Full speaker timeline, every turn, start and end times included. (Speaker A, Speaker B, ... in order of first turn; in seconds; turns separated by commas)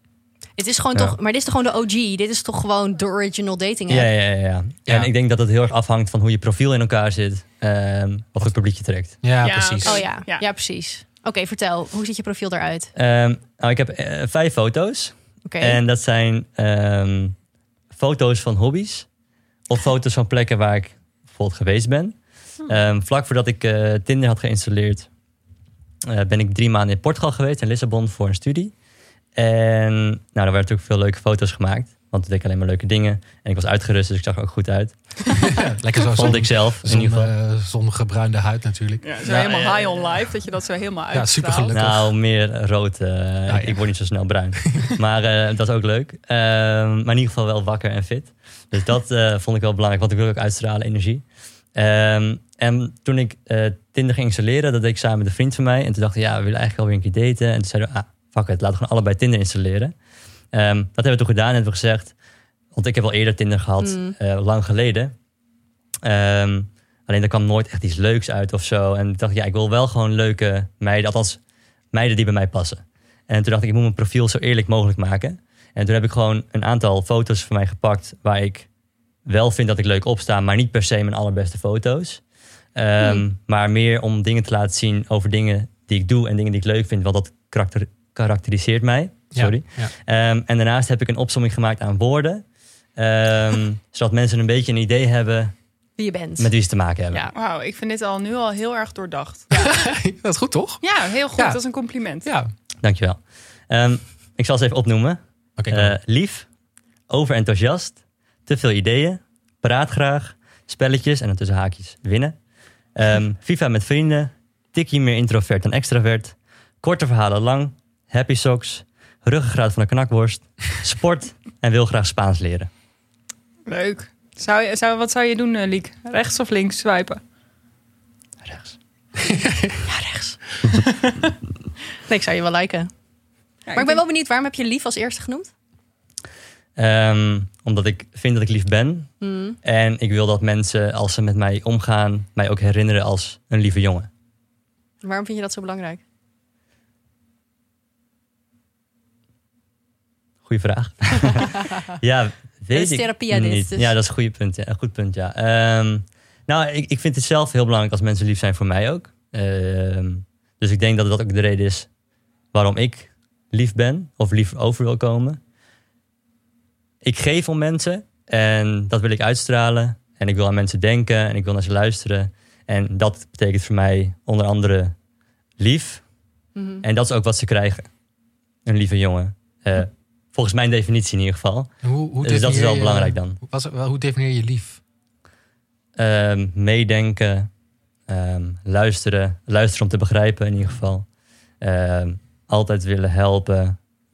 Speaker A: 0.6-4.1, Speaker B: 3.9-9.2, Speaker C: 9.2-10.1, Speaker D: 9.4-10.4, Speaker A: 9.8-12.9, Speaker B: 12.9-17.3, Speaker A: 15.4-15.8, Speaker B: 17.9-19.1, Speaker B: 19.7-22.1, Speaker B: 22.7-25.1, Speaker B: 26.1-28.7, Speaker B: 29.4-35.4, Speaker C: 35.3-39.0, Speaker B: 36.1-37.3, Speaker D: 39.0-41.7, Speaker B: 39.2-40.2, Speaker C: 41.1-42.1, Speaker B: 41.7-51.2, Speaker C: 43.5-43.8, Speaker B: 51.7-59.9, Speaker B: 60.5-62.1, Speaker B: 62.7-65.1, Speaker A: 63.8-64.1, Speaker B: 66.0-71.4, Speaker B: 71.9-78.7, Speaker B: 79.2-82.2, Speaker B: 82.8-92.4, Speaker C: 89.3-89.9, Speaker B: 93.0-95.5, Speaker A: 96.0-96.5, Speaker B: 96.4-97.2, Speaker D: 97.3-99.5, Speaker A: 99.5-99.8, Speaker C: 99.6-100.8, Speaker D: 100.8-102.3, Speaker C: 101.3-101.6, Speaker C: 102.2-102.5, Speaker B: 102.8-103.2, Speaker B: 103.7-105.2, Speaker C: 105.6-106.0, Speaker B: 105.7-106.5, Speaker B: 107.1-112.3, Speaker B: 112.9-122.7, Speaker D: 123.7-127.2, Speaker B: 128.4-128.7, Speaker C: 129.2-129.8, Speaker A: 129.9-130.4, Speaker A: 132.1-132.9, Speaker D: 133.7-134.0, Speaker A: 133.7-135.5, Speaker B: 136.8-139.1, Speaker A: 139.2-139.6, Speaker B: 139.6-144.1, Speaker A: 145.0-146.0, Speaker B: 150.4-161.9, Speaker A: 151.3-151.6, Speaker A: 152.7-153.9, Speaker B: 162.5-165.4, Speaker B: 167.0-174.9, Speaker B: 175.6-176.0, Speaker A: 176.6-176.8, Speaker B: 176.8-177.9, Speaker B: 178.7-181.7, Speaker C: 181.8-184.8, Speaker B: 182.2-183.4, Speaker B: 186.0-187.5, Speaker B: 188.1-191.1, Speaker B: 191.6-193.8